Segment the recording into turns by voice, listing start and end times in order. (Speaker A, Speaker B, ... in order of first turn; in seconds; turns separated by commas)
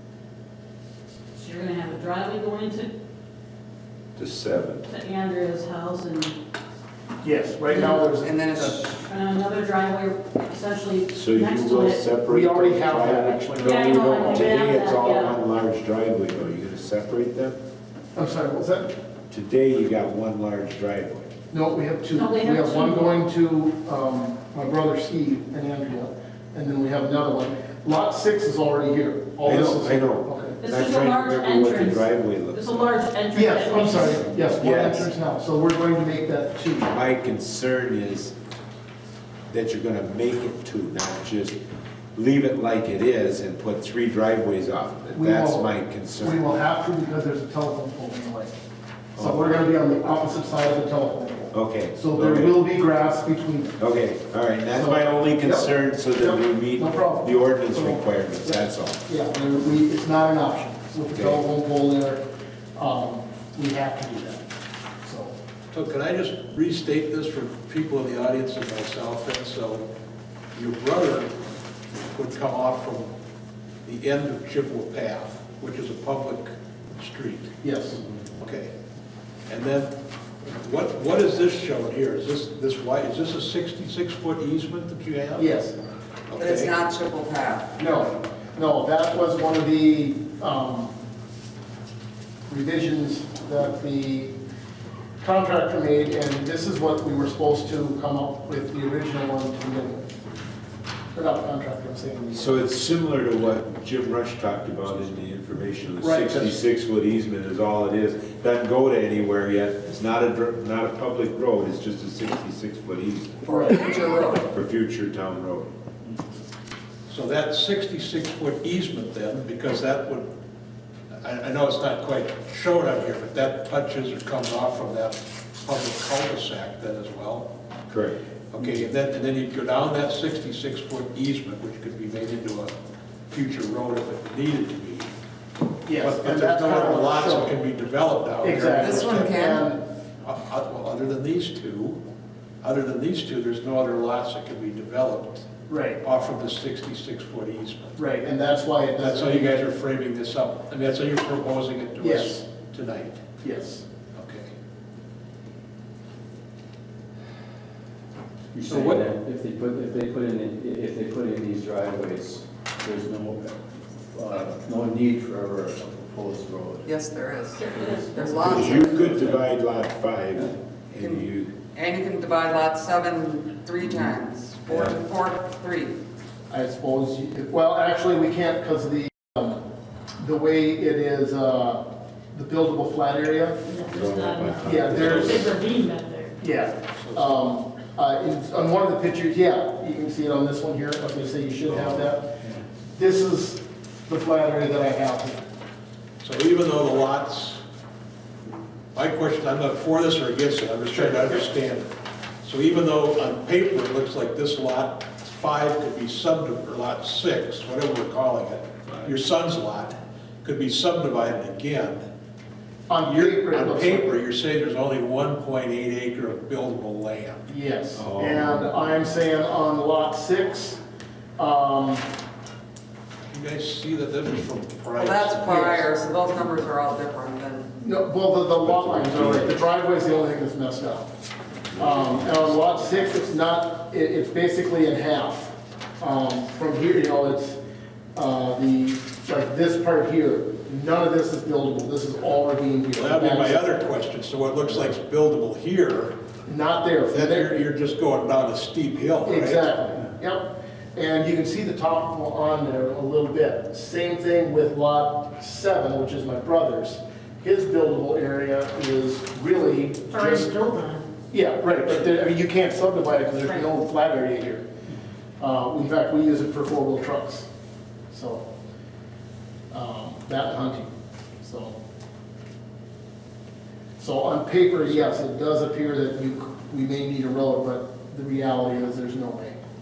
Speaker A: 1.4-2.9, Speaker B: 4.2-4.8, Speaker A: 4.9-6.4, Speaker C: 7.2-8.8, Speaker A: 7.7-8.0, Speaker D: 8.2-8.9, Speaker A: 9.0-12.0, Speaker B: 11.1-17.6, Speaker C: 12.3-14.5, Speaker A: 13.6-15.3, Speaker C: 18.1-18.9, Speaker B: 19.3-21.3, Speaker C: 21.5-30.6, Speaker A: 22.1-23.1, Speaker B: 29.4-32.9, Speaker A: 30.6-34.2, Speaker C: 33.3-36.9, Speaker B: 34.0-35.1, Speaker B: 36.8-38.3, Speaker B: 39.5-41.6, Speaker B: 42.1-46.4, Speaker C: 45.1-45.7, Speaker C: 46.2-48.5, Speaker B: 49.1-49.6, Speaker C: 49.2-53.8, Speaker B: 51.5-52.6, Speaker B: 53.8-59.0, Speaker C: 54.7-62.2, Speaker B: 61.1-61.4, Speaker C: 62.7-64.5, Speaker C: 65.0-65.3, Speaker E: 65.7-69.9, Speaker E: 70.5-71.3, Speaker E: 72.0-73.1, Speaker E: 73.8-77.5, Speaker C: 77.6-78.0, Speaker E: 78.4-78.7, Speaker E: 79.5-79.9, Speaker E: 80.4-85.5, Speaker C: 85.3-85.7, Speaker E: 86.3-86.8, Speaker D: 86.4-87.7, Speaker C: 87.8-90.9, Speaker C: 92.5-94.3, Speaker C: 95.2-100.2, Speaker C: 101.1-102.6, Speaker B: 102.3-113.4, Speaker C: 106.0-106.5, Speaker D: 113.4-114.5, Speaker C: 113.5-114.3, Speaker B: 114.5-115.7, Speaker E: 117.1-120.3, Speaker E: 121.2-127.5, Speaker B: 127.9-128.2, Speaker E: 128.5-132.7, Speaker E: 133.3-135.1, Speaker C: 135.8-137.6, Speaker E: 136.0-139.4, Speaker C: 138.4-139.8, Speaker D: 138.8-139.6, Speaker E: 140.2-142.0, Speaker E: 142.6-145.5, Speaker C: 145.7-146.0, Speaker E: 146.0-148.0, Speaker C: 148.0-149.7, Speaker E: 149.0-153.2, Speaker C: 152.0-152.4, Speaker C: 153.4-153.8, Speaker E: 154.1-154.5, Speaker F: 158.5-166.9, Speaker E: 158.6-159.0, Speaker D: 166.8-169.0, Speaker A: 167.6-168.2, Speaker F: 167.7-169.5, Speaker B: 168.4-171.5, Speaker D: 171.0-175.9, Speaker B: 174.7-175.0, Speaker C: 176.5-179.6, Speaker C: 180.2-183.6, Speaker A: 183.7-186.3, Speaker B: 183.9-185.5, Speaker C: 184.6-185.4, Speaker C: 186.4-192.4, Speaker E: 187.0-187.5, Speaker E: 191.7-192.0, Speaker C: 192.9-195.5, Speaker E: 196.2-197.6, Speaker E: 198.9-201.9, Speaker C: 200.9-201.4, Speaker E: 202.4-212.0, Speaker C: 212.9-214.2, Speaker E: 213.0-217.4, Speaker C: 217.5-220.8, Speaker B: 217.9-218.7, Speaker C: 221.4-222.1, Speaker E: 223.3-225.9, Speaker D: 224.9-227.7, Speaker C: 225.4-225.8, Speaker C: 227.8-231.1, Speaker B: 228.6-229.5, Speaker C: 231.7-237.6, Speaker C: 238.1-243.6, Speaker E: 242.9-246.2, Speaker C: 246.4-247.5, Speaker E: 247.1-249.7, Speaker C: 249.2-260.5, Speaker A: 260.1-261.1, Speaker C: 261.3-264.6, Speaker C: 265.4-267.5, Speaker C: 268.1-268.4, Speaker C: 269.7-271.8, Speaker C: 274.0-279.6